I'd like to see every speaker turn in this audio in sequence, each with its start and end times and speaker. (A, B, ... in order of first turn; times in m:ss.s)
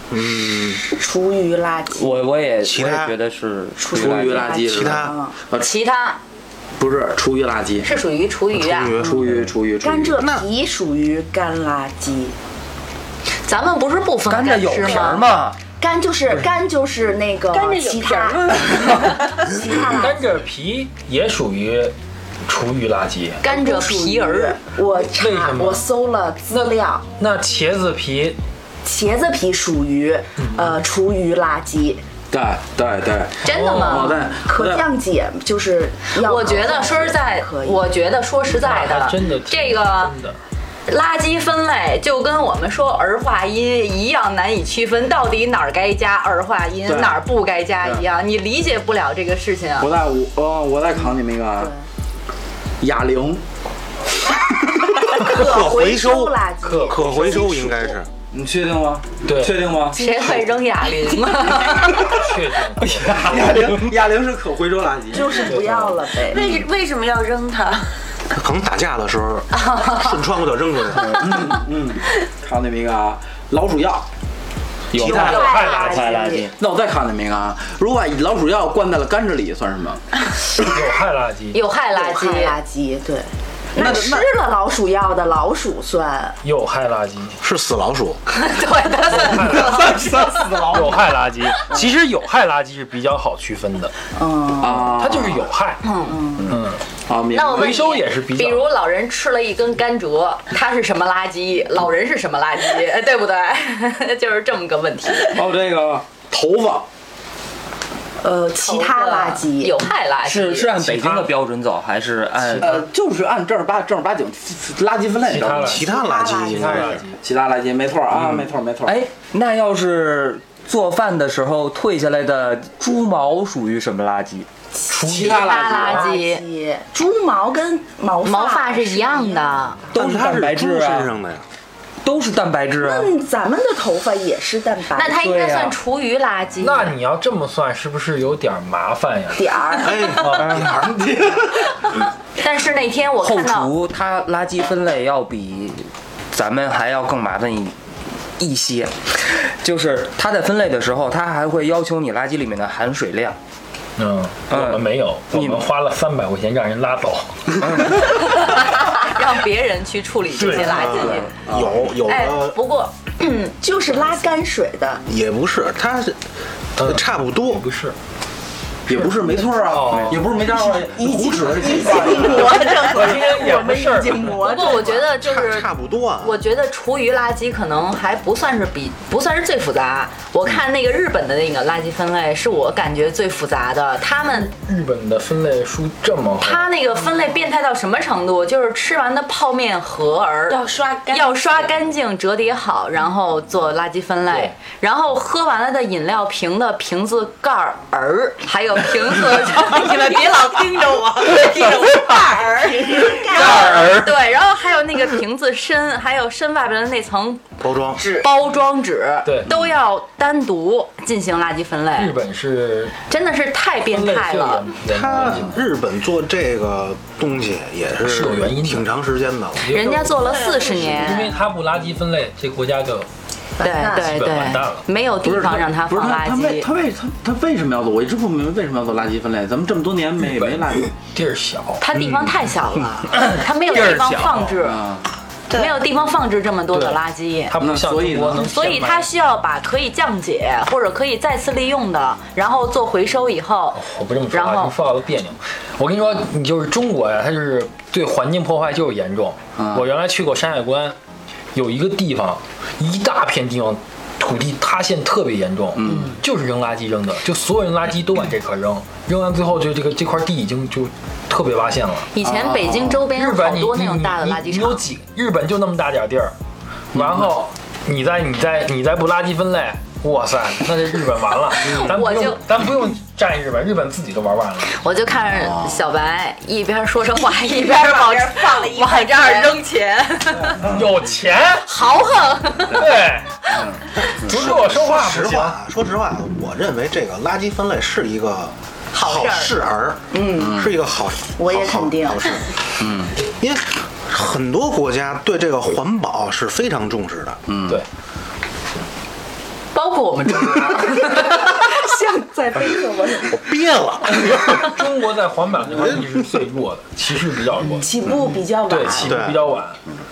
0:00.1-0:00.8 A
0:00.9-0:02.2 B
0:01.9-0:04.5 C
0:02.6-0:03.2 A
0:03.8-0:05.4 B
0:03.9-0:05.7 D
0:04.6-0:05.2 A
0:05.6-0:06.2 E
0:06.8-0:07.9 D
0:07.8-0:09.0 E
0:08.5-0:09.5 A
0:09.0-0:10.2 D
0:09.8-0:12.4 B
0:10.2-0:10.5 A
0:13.4-0:15.2 E
0:14.3-0:15.6 C
0:15.8-0:20.2 B
0:17.5-0:19.4 F
0:20.0-0:22.0 G
0:22.5-0:23.4 G
0:23.4-0:24.6 E
0:23.4-0:27.0 B
0:25.1-0:25.9 G
0:27.2-0:28.4 G
0:28.8-0:32.0 B
0:30.4-0:30.8 G
0:32.3-0:34.9 D
0:33.4-0:34.2 E
0:33.4-0:34.2 G
0:34.2-0:37.9 B
0:36.2-0:40.2 E
0:38.6-0:40.4 G
0:40.9-0:49.9 E
0:46.9-0:47.2 D
0:49.8-0:51.7 D
0:51.0-0:51.9 B
0:52.8-0:53.4 D
0:55.0-0:58.0 B
0:55.1-0:58.1 A
0:56.6-0:57.2 G
0:58.3-1:00.0 D
0:59.2-0:59.6 G
0:59.9-1:02.2 E
1:02.0-1:03.5 G
1:02.8-1:03.9 C
1:03.1-1:05.5 D
1:05.1-1:06.5 B
1:05.4-1:06.1 G
1:06.2-1:07.9 F
1:08.3-1:11.2 A
1:09.5-1:10.2 E
1:11.1-1:14.1 D
1:14.9-1:16.4 G
1:14.9-1:16.5 C
1:15.0-1:16.5 B
1:15.0-1:15.3 A
1:16.6-1:20.0 D
1:20.6-1:21.6 G
1:21.5-1:22.6 E
1:21.9-1:26.4 B
1:23.8-1:24.3 D
1:26.4-1:27.4 G
1:27.4-1:28.2 A
1:28.3-1:30.0 E
1:29.1-1:30.0 G
1:29.4-1:31.1 D
1:30.7-1:33.9 G
1:34.2-1:35.0 B
1:34.6-1:35.5 D
1:34.8-1:35.8 G
1:35.8-1:36.2 E
1:36.1-1:36.5 B
1:36.5-1:36.8 G
1:37.1-1:37.8 D
1:37.3-1:45.4 E
1:37.5-1:38.7 G
1:45.3-1:46.9 D
1:48.2-1:49.8 B
1:48.6-1:50.8 E
1:50.2-1:52.8 C
1:50.8-1:51.3 G
1:52.6-1:55.8 D
1:55.3-1:55.9 G
1:55.6-1:57.0 A
1:55.7-1:57.0 B
1:56.5-1:57.2 G
1:57.2-1:59.0 D
1:58.2-2:04.5 C
2:04.9-2:05.5 G
2:04.9-2:06.1 D
2:05.1-2:09.7 B
2:05.2-2:06.4 E
2:08.2-2:09.9 E
2:09.9-2:11.1 C
2:09.9-2:11.4 A
2:12.0-2:13.1 C
2:12.8-2:15.2 B
2:14.9-2:16.9 E
2:15.2-2:15.8 C
2:16.6-2:20.7 G
2:19.4-2:20.2 B
2:19.8-2:21.0 A
2:20.4-2:20.8 C
2:20.5-2:21.7 D
2:22.4-2:23.7 E
2:23.2-2:27.8 C
2:28.4-2:33.4 C
2:34.0-2:37.6 G
2:34.5-2:35.6 C
2:37.6-2:38.0 C
2:38.0-2:41.4 E
2:40.3-2:40.9 G
2:40.6-2:42.6 A
2:41.4-2:41.8 D
2:42.0-2:43.5 E
2:43.6-2:45.0 B
2:45.1-2:46.2 A
2:46.8-2:48.0 G
2:46.8-2:47.6 A
2:48.9-2:52.8 D
2:48.9-2:50.2 G
2:49.9-2:50.2 C
2:50.3-2:55.0 B
2:51.7-2:54.5 G
2:54.4-2:55.7 E
2:54.6-2:56.4 A
2:56.2-3:04.5 E
3:04.4-3:06.7 G
3:06.4-3:27.4 E
3:10.5-3:11.7 F
3:22.3-3:23.7 F
3:23.8-3:24.1 C
3:27.6-3:28.0 A
3:28.0-3:28.3 F
3:28.0-3:32.2 E
3:29.2-3:29.5 G
3:32.0-3:33.0 G
3:33.1-3:34.7 E
3:33.9-3:35.6 G
3:34.9-3:39.8 A
3:38.0-3:38.9 G
3:39.6-3:43.1 G
3:39.6-3:41.3 E
3:40.2-3:41.3 F
3:43.6-3:44.1 B
3:43.6-3:46.7 E
3:43.9-3:44.8 G
3:45.2-3:50.9 D
3:50.2-3:51.8 G
3:51.8-3:54.8 E
3:53.1-3:54.5 C
3:54.6-3:55.0 D
3:55.5-3:55.8 F
3:55.5-3:57.6 E
3:56.7-3:59.1 G
3:57.6-3:58.5 D
3:58.4-4:04.8 E
4:03.7-4:11.0 G
4:09.6-4:09.9 D
4:11.5-4:22.1 G
4:15.8-4:16.2 D
4:22.1-4:24.8 E
4:22.2-4:23.1 D
4:23.2-4:26.4 G
4:26.9-4:34.7 G
4:27.0-4:27.3 D
4:31.6-4:32.4 E
4:34.7-4:40.7 E
4:35.3-4:35.8 D
4:37.3-4:39.6 F
4:40.6-4:41.0 D
4:40.6-4:41.7 G
4:41.6-4:42.9 E
4:42.7-4:43.3 G
4:43.5-4:43.8 D
4:44.0-4:52.5 A
4:44.2-4:45.6 G
4:49.0-4:49.5 E
4:50.1-4:50.6 B
4:50.4-4:50.7 D
4:51.4-4:52.4 B
4:52.8-4:53.1 D
4:53.4-4:57.4 A
4:57.5-4:57.8 D
4:59.7-5:01.6 E
5:01.5-5:03.4 B
5:03.3-5:04.7 A
5:04.6-5:07.9 G
5:05.7-5:06.2 A
5:07.7-5:09.3 B
5:08.7-5:09.8 G
5:09.0-5:09.4 A